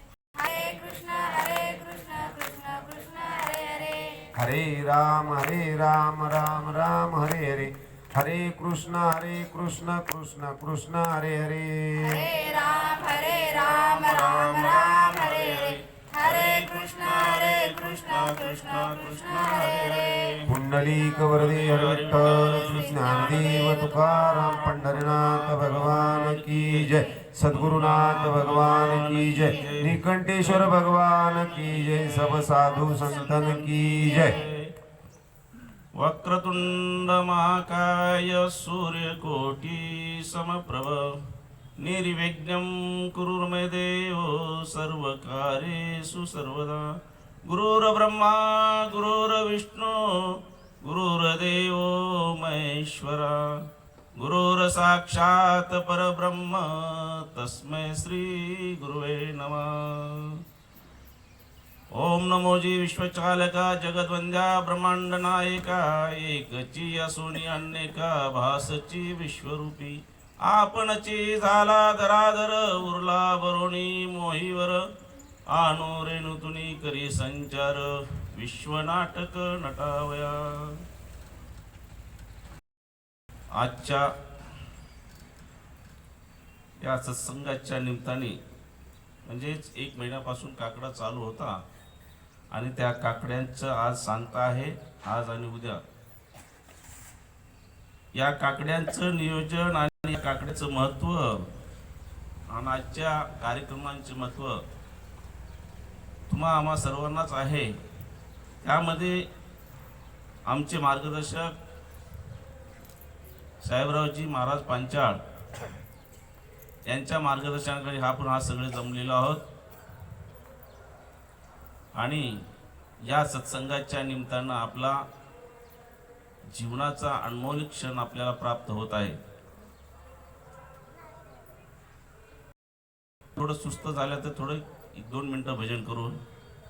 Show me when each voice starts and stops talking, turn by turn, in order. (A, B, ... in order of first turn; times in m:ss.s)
0:00.4-0:04.3 A
0:04.4-0:12.3 B
0:12.0-0:20.4 A
0:13.8-0:20.5 C
0:20.5-0:34.4 B
0:21.3-0:30.8 C
0:22.0-0:24.9 A
0:28.8-0:29.8 A
0:31.3-0:32.5 C
0:31.8-0:34.5 A
0:33.0-0:34.7 C
0:36.0-1:00.4 C
1:01.9-1:14.9 C
1:15.5-1:20.8 C
1:23.5-1:24.1 C
1:26.8-1:28.4 C
1:29.2-1:31.6 C
1:32.5-1:35.8 C
1:38.1-1:41.5 C
1:42.5-1:44.6 C
1:46.3-1:47.8 C
1:48.6-1:49.3 C
1:50.5-1:51.6 C
1:53.6-1:55.2 C
1:56.9-1:59.4 C
2:02.0-2:02.5 C
2:03.1-2:05.1 C
2:06.5-2:09.2 C
2:13.3-2:16.2 C